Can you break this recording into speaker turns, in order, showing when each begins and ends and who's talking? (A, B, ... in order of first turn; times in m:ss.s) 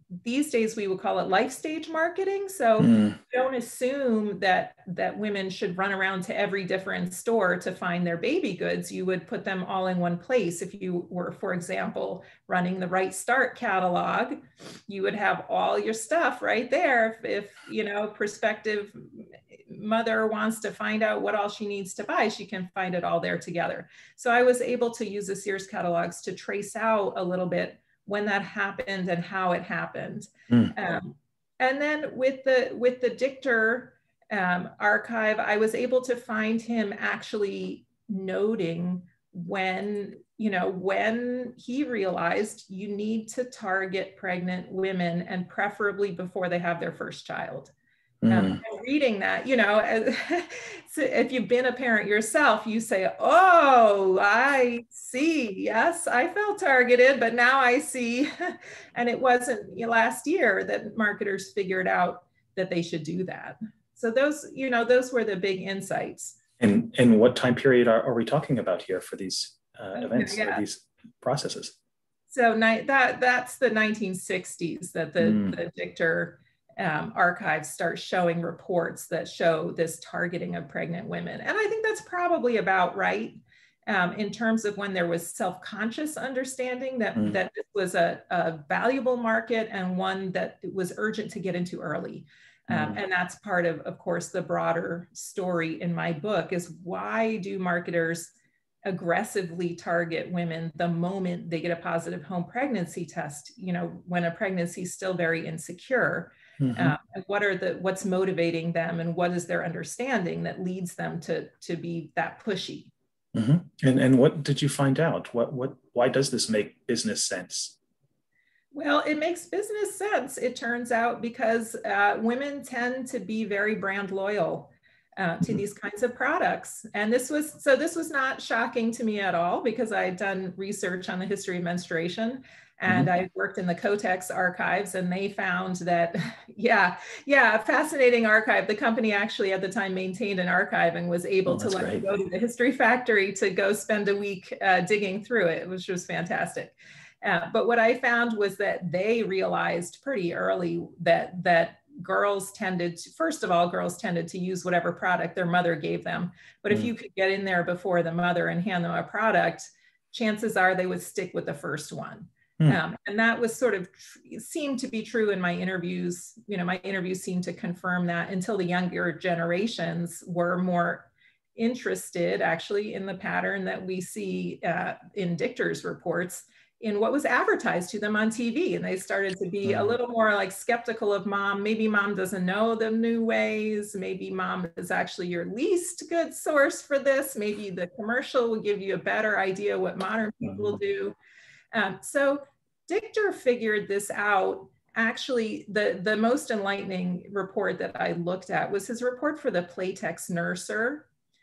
0:00.2-0:47.7 A
0:02.8-0:03.2 B
0:48.2-0:48.6 B
0:48.3-1:06.4 A
1:06.6-1:11.8 B
1:10.0-1:10.6 A
1:12.3-1:38.3 A
1:15.2-1:15.6 B
1:32.7-1:33.0 B
1:38.9-1:52.9 A
1:46.6-1:47.0 B
1:53.3-1:57.8 B
1:58.7-3:11.2 A
2:21.5-2:22.0 B
2:59.7-2:59.9 B
3:11.7-3:21.1 A